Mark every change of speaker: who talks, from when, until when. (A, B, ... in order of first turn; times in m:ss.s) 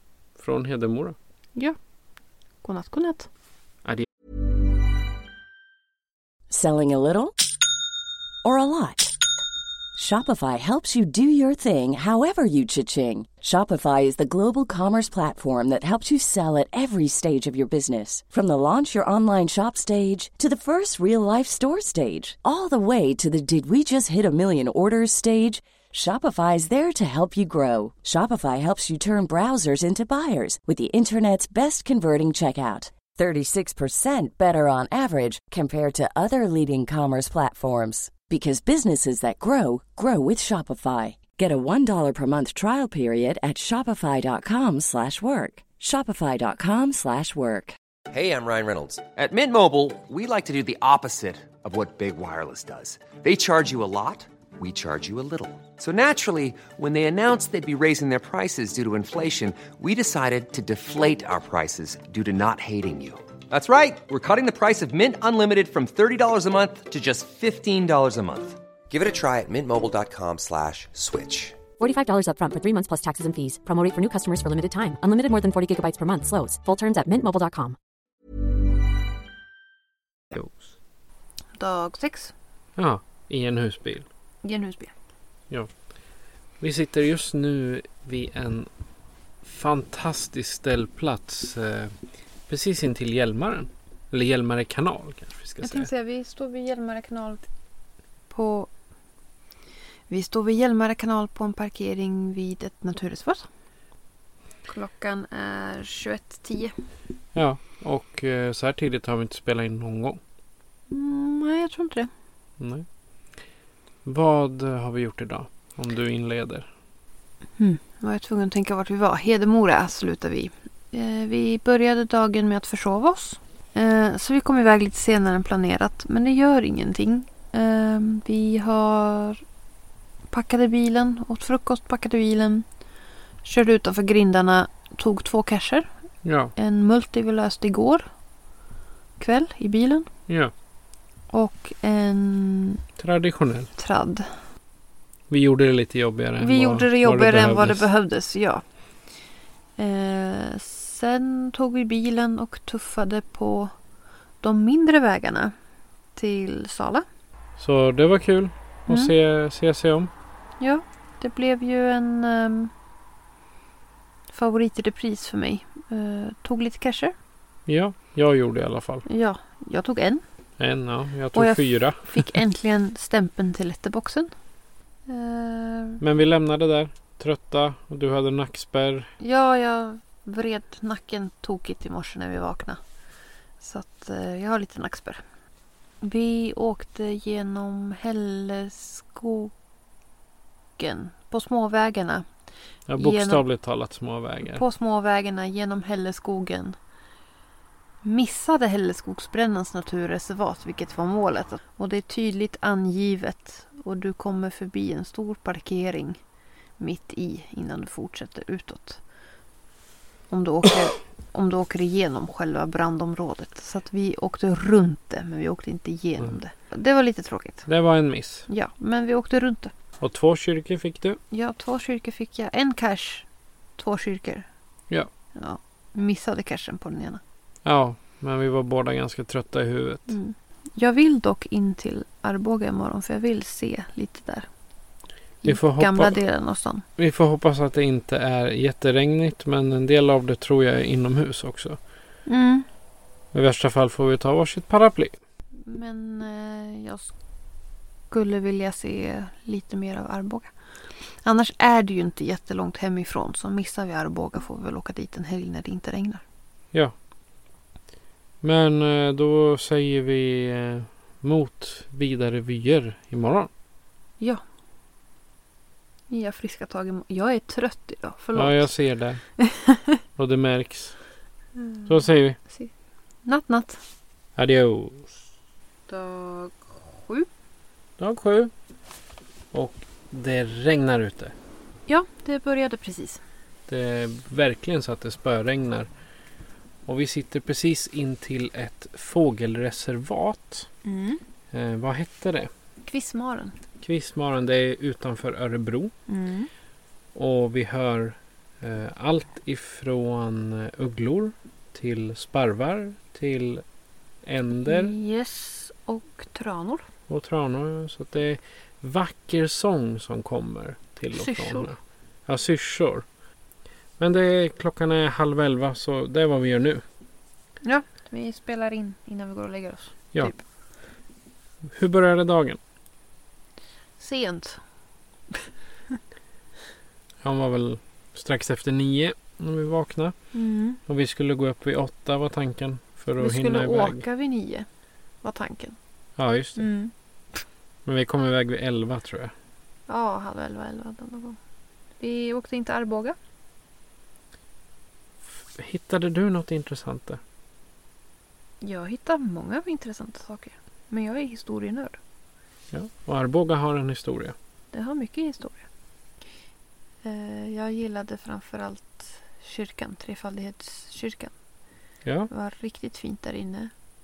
0:00.4-0:01.2 A
0:02.6-0:03.3 B
0:06.5-0:07.4 C
0:08.4-0:09.1 C
0:10.0-0:47.8 C
0:48.1-1:11.6 D
1:11.8-1:17.8 E
1:20.3-1:20.7 A
1:21.6-1:22.3 B
1:22.8-1:24.1 A
1:24.4-1:24.9 B
1:26.6-1:28.7 A
1:29.4-1:31.9 A
1:32.5-1:35.9 A
1:35.6-1:37.4 B
1:38.3-1:38.7 B
1:40.1-1:43.5 B
1:44.7-1:46.7 B
1:47.3-1:50.2 A
1:50.9-1:52.1 B
1:52.6-1:52.8 A
1:54.0-1:56.7 A
1:57.6-2:09.4 B
2:10.3-2:12.6 B
2:13.4-2:15.9 B
2:16.2-2:16.5 A
2:16.6-2:18.1 B
2:19.2-2:20.1 B
2:21.3-2:22.8 B
2:23.0-2:23.7 A
2:23.8-2:24.3 B
2:25.3-2:27.9 A
2:26.4-2:28.6 B
2:29.8-2:33.7 B
2:34.4-2:35.5 B
2:36.2-2:37.0 B
2:37.6-2:40.1 A
2:40.6-2:42.7 B
2:44.3-2:47.1 B
2:47.7-2:49.0 A
2:49.0-2:50.2 B
2:50.6-2:52.3 A
2:51.3-2:54.3 B
2:55.1-2:56.0 B
2:56.0-2:59.1 A
2:59.2-3:02.8 B
3:03.6-3:05.2 B
3:06.0-3:09.5 B
3:10.8-3:12.2 B
3:12.9-3:14.6 A
3:13.0-3:13.4 B
3:14.5-3:16.8 B
3:18.0-3:26.2 B
3:26.8-3:29.0 B
3:30.3-3:37.7 B
3:37.7-3:38.5 A
3:38.5-3:39.7 B
3:40.0-3:41.2 A
3:41.3-3:43.2 B
3:43.8-3:44.5 B
3:45.3-3:47.2 B
3:47.6-3:50.1 A
3:50.1-3:54.5 B
3:55.4-3:56.8 B
3:55.4-3:56.2 A
3:57.0-4:01.8 A
4:02.3-4:02.6 B
4:03.3-4:05.2 A
4:05.6-4:07.1 B
4:08.1-4:10.5 B
4:11.2-4:16.2 B
4:18.4-4:23.5 A
4:26.1-4:28.7 B
4:28.3-4:29.2 A
4:29.4-4:30.0 B
4:30.2-4:31.0 A
4:31.6-4:32.7 B
4:31.9-4:32.4 A
4:33.2-4:33.8 B
4:34.4-4:35.1 A
4:35.9-4:37.3 B
4:38.0-4:38.5 A
4:39.5-4:41.3 A
4:41.9-4:43.2 B
4:43.7-4:45.9 A
4:46.9-4:50.7 A
4:50.8-4:51.2 B
4:51.5-4:52.5 A
4:52.8-4:53.5 B
4:53.8-4:55.9 A
4:56.1-4:56.5 B
4:57.1-5:03.6 A
5:04.2-5:04.9 A
5:04.6-5:06.8 B
5:07.1-5:13.0 A
5:11.1-5:11.7 B
5:14.0-5:16.8 A
5:17.6-5:20.4 B
5:21.7-5:22.6 A
5:24.0-5:24.6 B
5:27.2-5:30.2 A
5:30.3-5:30.8 B
5:30.9-5:34.0 A
5:33.2-5:34.7 B
5:35.2-5:35.8 B
5:36.2-5:36.6 A
5:36.6-5:36.9 B
5:37.8-5:39.3 A
5:39.9-5:41.4 B
5:42.0-5:43.2 B
5:45.5-5:47.2 A
5:48.6-5:52.0 B
5:52.7-5:54.3 A
5:54.7-5:55.6 B
5:57.0-6:01.3 B
6:02.0-6:02.3 A
6:02.3-6:03.7 B